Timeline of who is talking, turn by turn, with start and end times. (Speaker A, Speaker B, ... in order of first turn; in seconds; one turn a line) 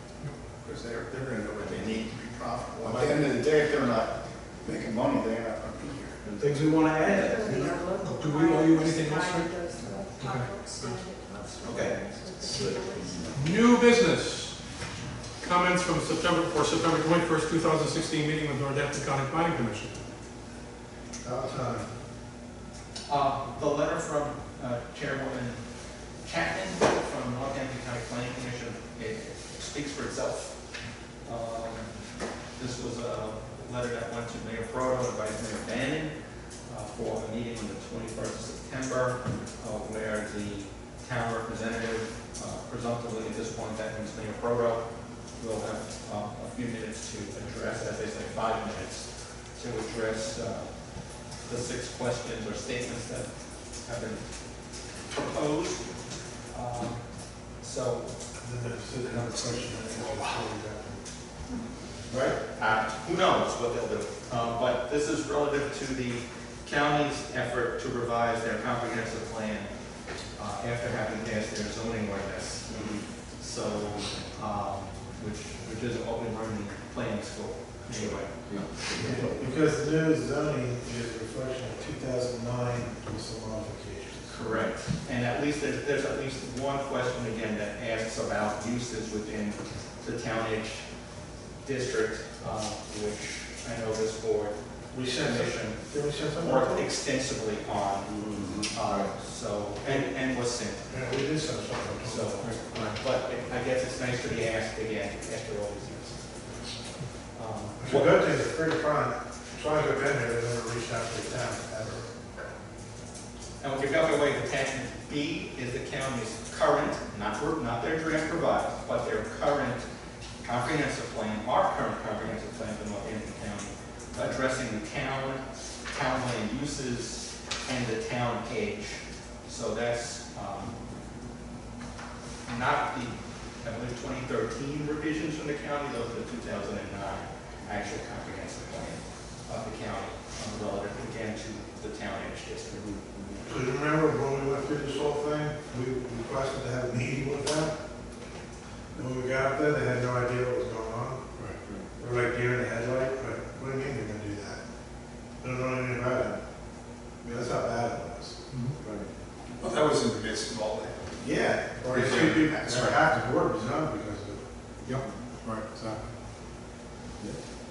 Speaker A: 0.6-6.2
Speaker B: 2.8-3.2
Speaker C: 6.3-7.8
Speaker D: 7.0-13.5
Speaker E: 8.0-9.6
Speaker E: 10.2-11.0
Speaker C: 11.6-13.2
Speaker E: 13.3-14.6
Speaker E: 15.4-20.0
Speaker B: 21.2-21.9
Speaker F: 23.1-25.6
Speaker F: 26.2-30.5
Speaker F: 31.2-31.9
Speaker F: 32.6-36.1
Speaker F: 36.7-44.8
Speaker F: 45.4-50.7
Speaker F: 51.4-53.3
Speaker F: 53.8-54.2
Speaker F: 55.1-55.8
Speaker F: 56.5-57.0
Speaker F: 57.6-58.2
Speaker B: 58.4-61.0
Speaker F: 59.0-60.4
Speaker B: 62.1-62.4
Speaker F: 62.1-69.7
Speaker F: 70.3-79.2
Speaker A: 77.9-79.2
Speaker B: 79.0-84.3
Speaker F: 84.3-90.8
Speaker F: 91.6-100.9
Speaker B: 94.9-96.9
Speaker A: 98.1-98.7
Speaker B: 99.8-100.1
Speaker B: 100.9-102.3
Speaker F: 102.0-106.2
Speaker E: 102.4-102.9
Speaker F: 107.3-108.2
Speaker B: 107.8-112.1
Speaker F: 113.6-119.8
Speaker F: 120.4-130.8
Speaker F: 132.4-142.9
Speaker B: 143.4-147.7
Speaker B: 148.9-151.2
Speaker B: 151.9-154.6
Speaker B: 155.4-156.4
Speaker B: 157.2-158.3
Speaker E: 158.5-158.8
Speaker C: 158.8-159.1
Speaker A: 159.6-159.9
Speaker B: 161.2-164.4
Speaker E: 164.8-166.0